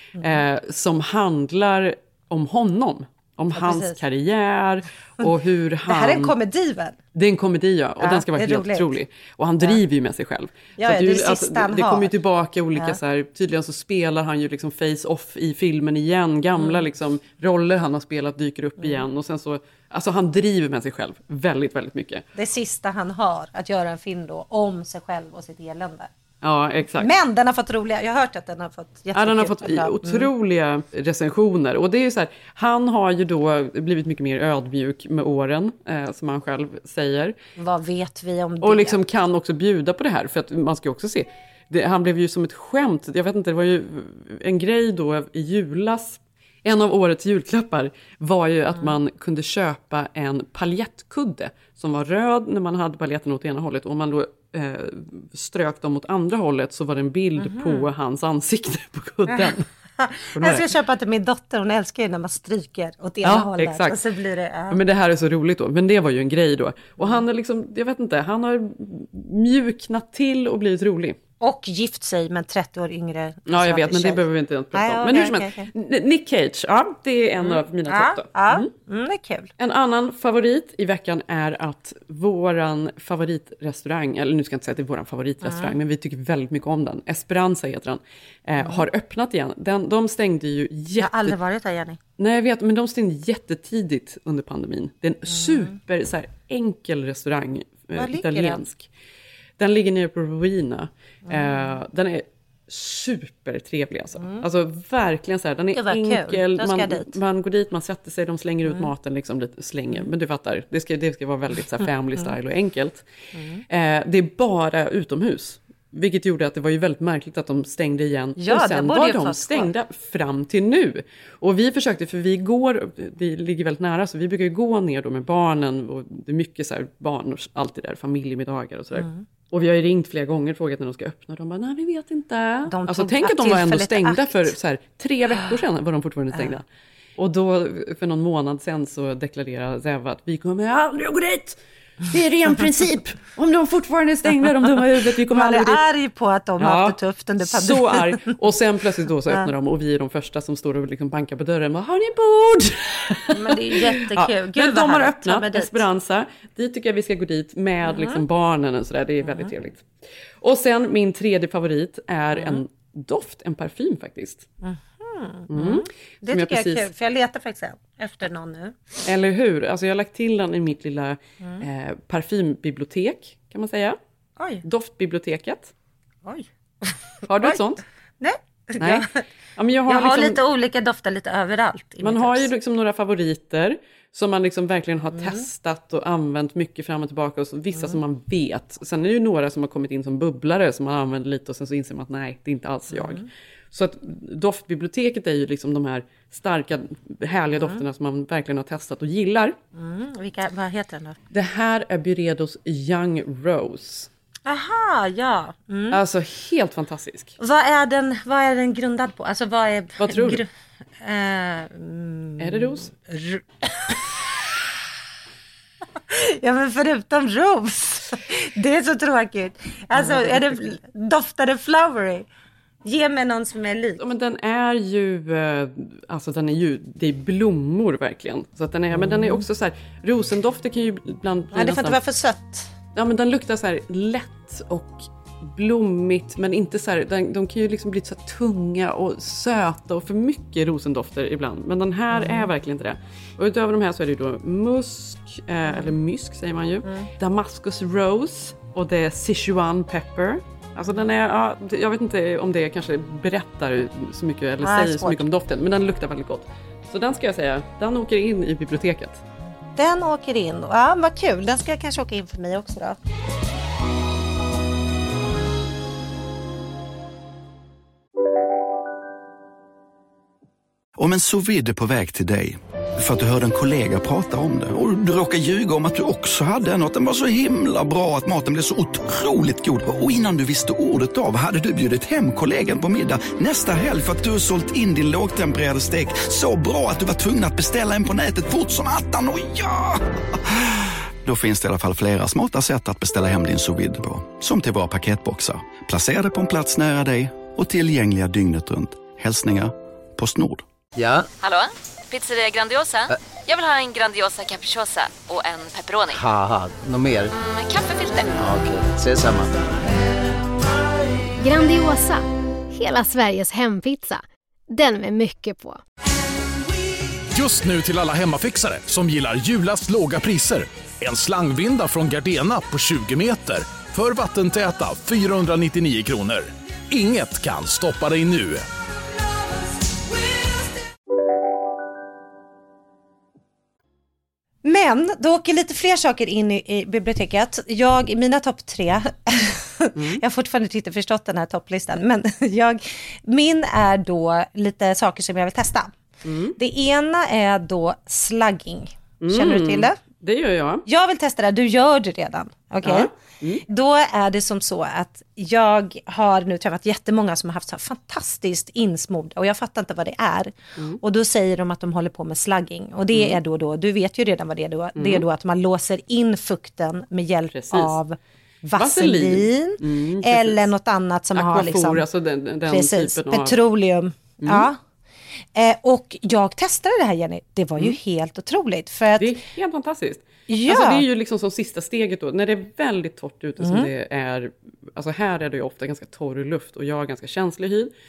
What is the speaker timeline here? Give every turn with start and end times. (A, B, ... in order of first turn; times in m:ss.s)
0:00.2-0:00.4 A
0:00.2-0:06.3 B
0:03.5-0:04.0 A
0:05.8-0:07.0 A
0:07.1-0:22.2 B
0:08.0-0:08.9 A
0:10.8-0:12.1 A
0:16.6-0:16.8 A
0:22.3-0:26.1 A
0:26.4-0:27.1 B
0:26.9-0:30.3 A
0:29.1-0:37.3 B
0:37.6-0:39.0 A
0:38.6-0:59.6 B
0:57.4-0:57.9 A
0:59.3-1:04.8 A
1:00.4-1:00.6 B
1:03.2-1:04.0 B
1:04.7-1:11.2 B
1:11.4-1:15.7 A
1:13.5-1:18.7 B
1:17.4-1:19.5 A
1:19.6-1:31.4 B
1:25.4-1:25.7 A
1:28.6-1:28.8 A
1:31.0-1:32.0 A
1:32.2-1:38.9 B
1:35.3-1:35.7 A
1:37.9-1:38.6 A
1:39.6-1:53.0 B
1:41.2-1:41.8 A
1:45.7-1:47.1 A
1:53.3-1:53.6 A
1:53.7-2:16.6 B
1:58.4-1:59.7 A
2:09.0-2:09.2 A
2:12.7-2:14.5 A
2:17.2-2:25.8 B
2:25.3-2:28.3 A
2:26.6-2:39.9 B
2:33.3-2:35.8 A
2:37.8-2:38.2 A
2:39.2-2:39.5 A
2:40.4-2:44.5 B
2:42.3-2:42.6 A
2:44.6-2:48.9 A
2:45.5-2:46.8 B
2:49.0-2:54.0 B
2:54.4-2:54.6 A
2:54.6-2:55.7 B
2:56.2-2:57.6 A
2:57.3-2:57.8 B
2:58.2-2:59.2 A
2:58.8-3:00.4 B
2:59.9-3:02.5 A
3:02.0-3:19.6 B
3:05.1-3:05.4 A
3:12.9-3:13.3 A
3:19.7-3:21.2 A
3:21.3-3:24.1 B
3:24.4-3:26.0 A
3:25.9-3:27.3 B
3:27.4-3:34.0 A
3:30.0-3:30.4 B
3:32.4-3:32.9 B
3:36.1-3:42.3 A
3:40.0-3:40.6 B
3:42.8-3:44.0 A
3:44.0-3:52.0 B
3:48.9-3:49.4 A
3:51.5-3:52.7 A
3:52.9-4:19.2 B
4:02.1-4:02.5 A
4:06.8-4:07.1 A
4:14.6-4:15.2 A
4:19.8-4:23.0 A
4:31.0-4:50.0 C
4:51.2-5:00.6 C
5:00.9-5:01.3 D
5:01.4-5:06.2 E
5:06.1-5:07.3 D
5:07.4-5:08.5 E
5:08.4-5:09.5 D
5:11.4-5:15.8 F
5:17.3-5:28.6 G
5:34.6-5:45.9 A
5:46.2-5:46.6 B
5:46.6-5:50.0 A
5:49.2-5:50.8 B
5:50.8-5:53.1 A
5:52.8-5:53.6 B
5:53.7-6:12.0 A
6:03.1-6:03.4 B
6:05.0-6:05.2 B
6:07.5-6:08.0 B
6:08.8-6:10.7 B
6:11.3-6:13.6 B
6:12.6-6:14.8 A
6:14.4-6:14.7 B
6:15.5-6:19.3 A
6:19.2-6:27.9 B
6:20.5-6:21.0 A
6:23.6-6:23.9 A